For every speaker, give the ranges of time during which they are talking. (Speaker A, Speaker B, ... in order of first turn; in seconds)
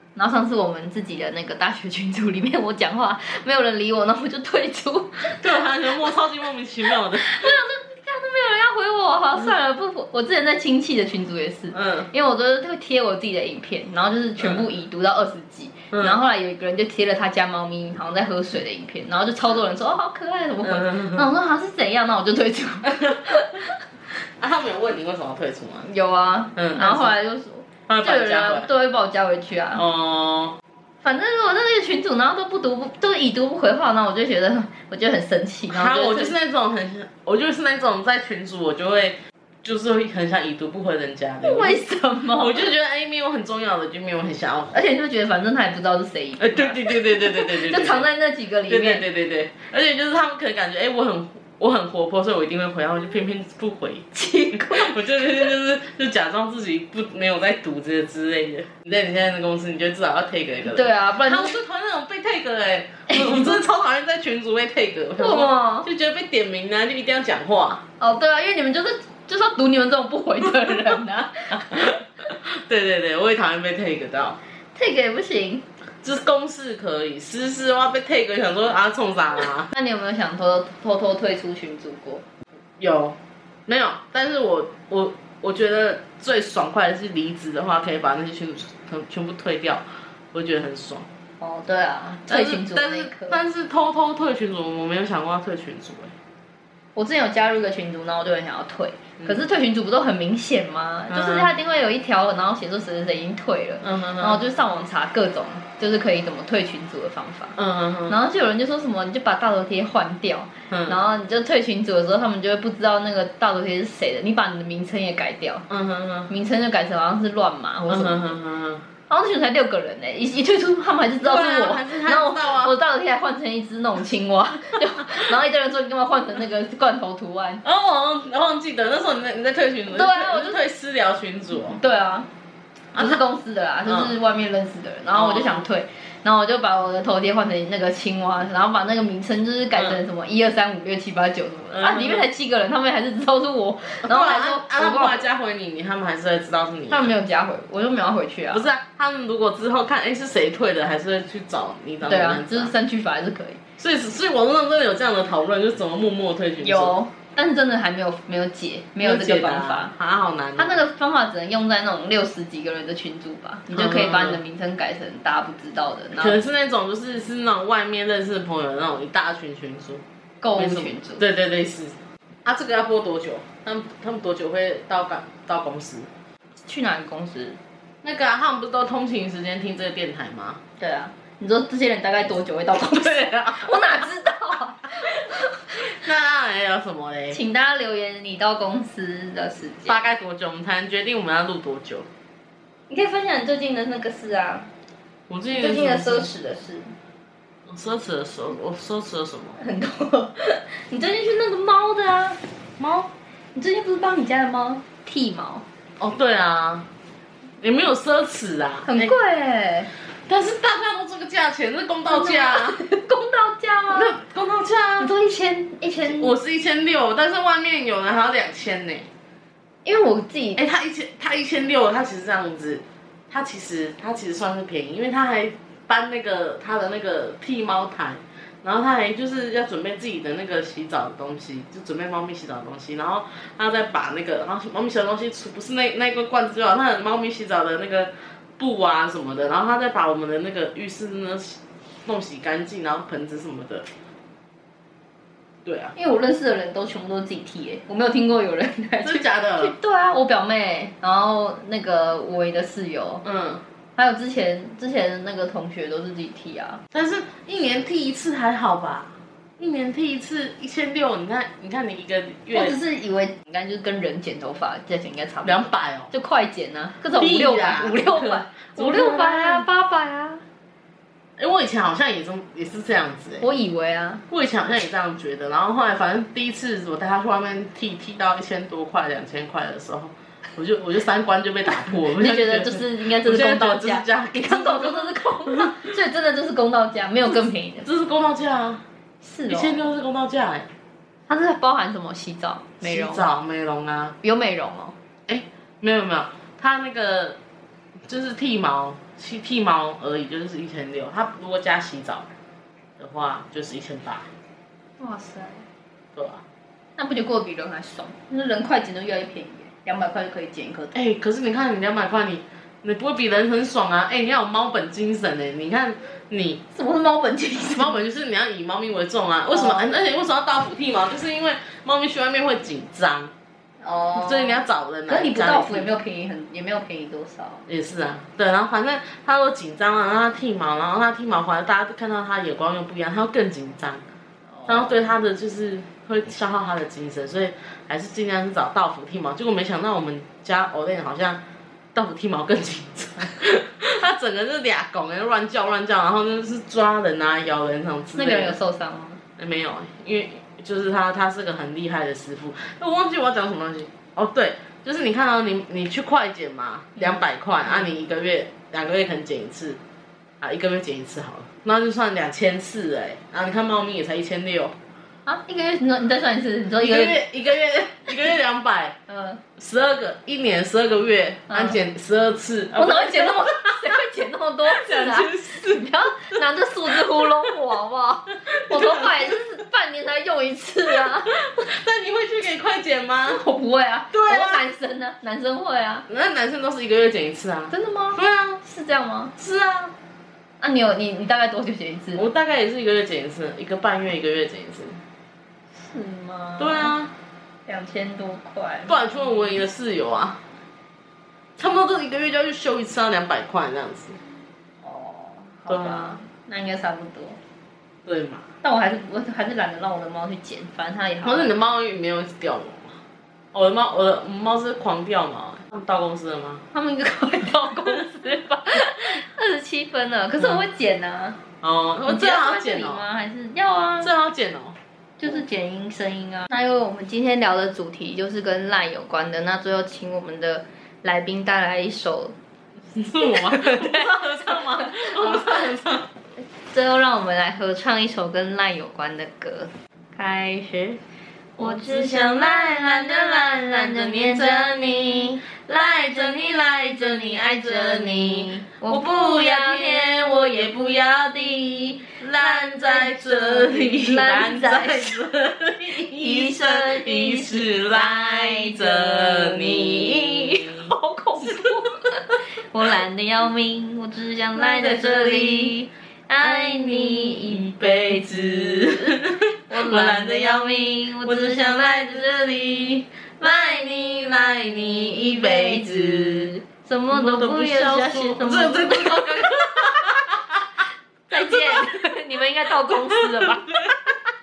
Speaker A: 0.1-5.5, 7.2-23.7, 25.8-29.8, 31.0-36.4, 41.4-42.7, 44.7-49.0, 54.1-55.0, 60.6-61.6, 63.1-63.6, 65.2-65.9, 68.0-71.9, 74.7-75.7, 79.7-82.2, 91.4-93.4, 97.0-107.6, 108.1-115.7, 116.3-118.4, 119.1-127.6, 129.9-130.6, 131.7-132.3, 132.9-145.2, 146.9-148.7, 152.0-153.6, 156.6-159.9, 160.6-166.4, 170.4-171.2, 176.6-177.6, 180.8-186.0, 187.3-190.0, 192.9-194.7, 195.5-196.9, 199.6-202.4, 203.5-205.6, 208.8-209.9, 212.1-214.2, 215.0-216.3, 219.8-220.6, 245.9-253.2, 253.9-256.8, 262.5-270.4, 273.4-274.2, 282.1-287.9, 289.2-289.9, 291.3-293.3, 294.2-294.9, 305.0-305.6, 307.0-310.9, 316.7-318.0, 319.5-320.0, 323.8-327.6, 334.6-335.0, 348.1-349.2, 357.0-357.9, 365.2-367.2, 369.1-369.4, 371.5-371.8, 372.7-381.5, 383.2-386.1, 387.7-389.3, 390.6-392.2, 395.8-396.9, 397.7-399.6, 404.8-407.4, 408.6-411.5, 416.7-421.4, 422.0-424.1, 425.2-432.3, 433.2-435.6, 436.4-441.0, 441.6-445.4, 446.6-451.0, 452.4-455.2, 455.8-479.5, 481.3-484.0
Speaker B: 5.4-7.5, 11.7-12.1, 15.9-16.2, 20.6-21.2, 24.4-25.9, 26.6-27.1, 27.9-28.7, 29.7-30.6, 35.7-41.8, 42.4-44.8, 46.4-48.1, 48.7-67.8, 71.5-74.4, 76.0-79.7, 82.8-91.1, 92.3-96.1, 101.1-101.5, 103.8-104.4, 107.6-108.2, 110.7-111.0, 115.7-116.3, 117.9-118.8, 121.2-122.7, 127.6-131.8, 132.9-133.2, 133.8-134.1, 135.1-135.7, 139.7-140.0, 141.7-142.3, 144.0-147.1, 148.5-152.7, 153.8-156.9, 159.0-160.8, 163.7-164.4, 166.2-170.0, 170.6-176.1, 178.0-180.6, 182.8-184.1, 185.8-187.4, 189.9-192.1, 195.3-196.3, 197.7-199.6, 202.8-203.1, 206.0-206.9, 207.6-209.1, 210.3-212.8, 213.9-215.1, 216.0-219.1, 220.6-243.9, 245.6-245.9, 249.0-249.7, 253.2-253.6, 256.9-262.8, 265.4-266.1, 267.1-269.6, 271.4-273.4, 274.3-285.8, 287.8-288.8, 289.5-290.7, 292.8-294.2, 295.3-297.4, 298.1-302.3, 303.0-304.3, 306.1-306.4, 310.9-316.6, 317.7-323.3, 324.1-325.9, 327.7-334.0, 334.7-341.4, 341.9-348.6, 349.4-359.8, 360.4-364.8, 366.8-369.0, 369.6-374.0, 374.6-376.4, 376.9-377.5, 378.5-379.4, 380.9-383.4, 384.1-384.6, 386.1-388.6, 389.4-389.9, 392.1-395.0, 396.6-397.1, 398.9-400.4, 401.6-404.2, 405.7-406.2, 408.1-408.5, 411.2-412.9, 413.5-416.6, 421.6-423.0, 424.0-424.8, 432.9-436.1, 441.6-461.7, 464.5-465.7, 466.4-476.5, 477.1-480.6, 481.3-481.8, 482.9-483.9